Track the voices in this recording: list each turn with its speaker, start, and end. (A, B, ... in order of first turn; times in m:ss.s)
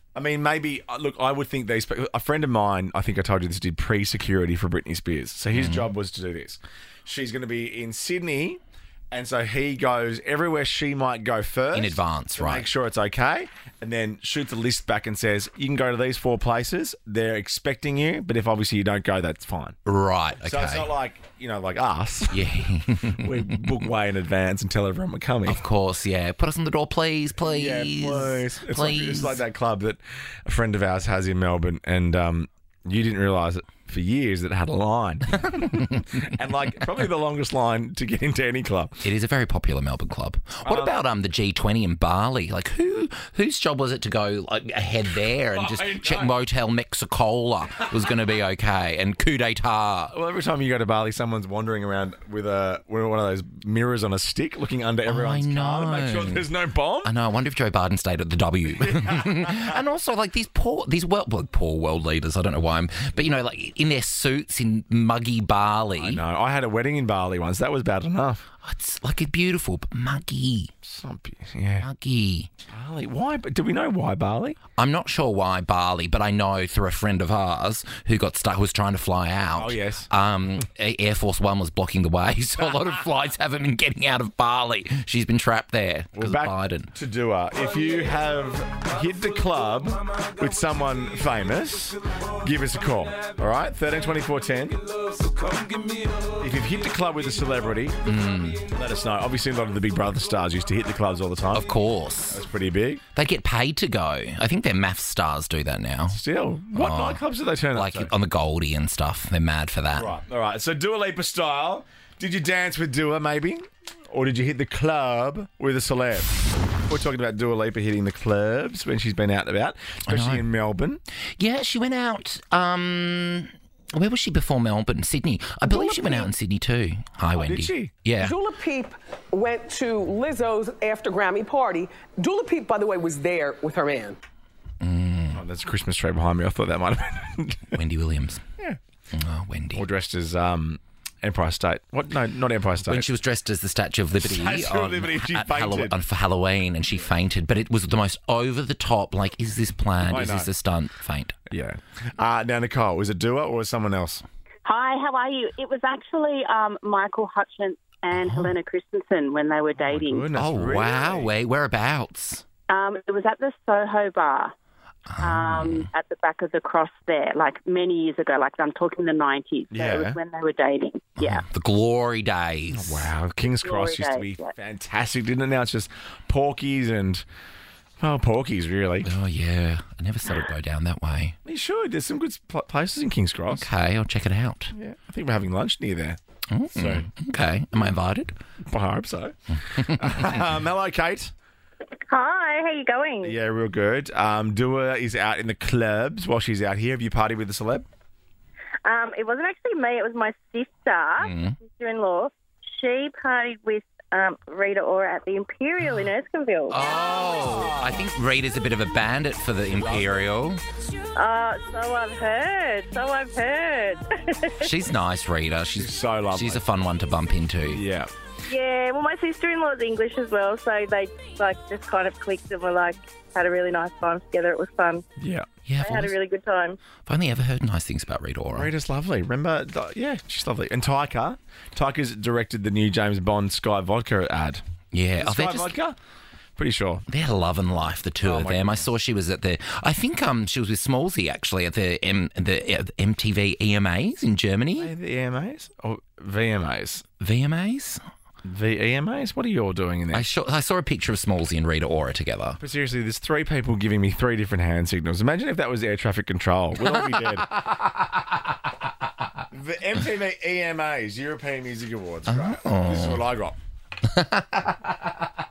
0:00.2-0:19.8 A
0:05.5-0:05.9 B
0:11.7-0:12.7 B
0:19.9-0:20.9 B
0:20.4-0:22.6 A
0:22.3-0:23.7 B
0:23.2-0:25.6 A
0:25.5-0:29.4 B
0:27.4-0:39.1 A
0:39.0-0:50.2 B
0:40.6-0:41.0 A
0:45.3-0:46.3 A
0:50.1-0:57.1 A
0:55.1-0:56.5 B
0:57.0-1:06.2 B
1:06.0-1:08.5 A
1:08.6-1:10.7 B
1:10.8-1:11.9 A
1:11.8-1:12.5 B
1:12.7-1:14.6 A
1:14.7-1:26.9 B
1:19.6-1:20.1 A
1:26.2-1:34.9 A
1:36.2-1:38.0 A
1:38.0-1:38.6 B
1:38.7-1:41.7 A
1:41.5-1:42.4 B
1:42.3-1:43.0 A
1:43.1-1:46.2 B
1:46.1-1:48.1 A
1:46.8-1:47.2 B
1:47.7-1:50.1 B
1:50.0-2:01.0 A
2:00.1-2:00.4 B
2:01.4-2:08.3 B
2:05.6-2:06.3 C
2:07.4-2:08.0 A
2:08.2-2:14.2 C
2:14.8-2:15.4 B
2:15.3-2:17.8 A
2:17.8-2:18.4 B
2:19.1-2:19.8 B
2:19.8-2:23.1 A
2:22.9-2:31.4 B
2:24.2-2:26.0 A
2:30.0-2:30.5 A
2:31.5-2:34.2 A
2:34.6-2:40.3 D
2:38.1-2:38.5 B
2:39.8-2:41.3 A
2:40.3-2:42.4 B
2:42.7-2:44.5 D
2:45.1-2:45.9 B
2:45.2-2:51.4 D
2:49.7-2:50.2 A
2:51.2-2:53.1 B
2:52.7-2:57.2 A
2:53.6-2:54.2 D
2:58.0-2:59.1 A
2:59.0-3:01.4 B
3:01.5-3:03.7 A
3:03.5-3:04.7 B
3:04.7-3:06.2 A
3:06.5-3:08.3 B
3:06.7-3:07.1 A
3:08.7-3:11.3 A
3:12.1-3:13.4 E
3:13.2-3:17.9 A
3:18.8-3:26.8 E
3:21.2-3:21.6 B
3:26.7-3:30.6 B
3:29.8-3:30.1 A
3:31.2-3:34.7 E
3:34.6-3:37.8 B
3:35.7-3:36.7 A
3:37.7-3:38.1 A
3:38.5-3:45.0 E
3:45.2-3:45.5 A
3:45.6-3:46.1 B
3:45.8-3:46.8 E
3:47.1-3:48.7 B
3:48.5-3:54.6 A
3:54.9-3:55.7 B
3:55.2-3:56.0 A
3:56.6-3:57.0 A
3:57.1-4:04.9 B
3:58.2-3:58.9 A
4:04.8-4:07.1 A
4:07.2-4:08.0 B
4:08.4-4:10.3 A
4:10.1-4:12.6 B
4:12.6-4:17.5 A
4:19.5-4:23.6 A
4:22.3-4:23.2 B
4:24.1-4:24.4 B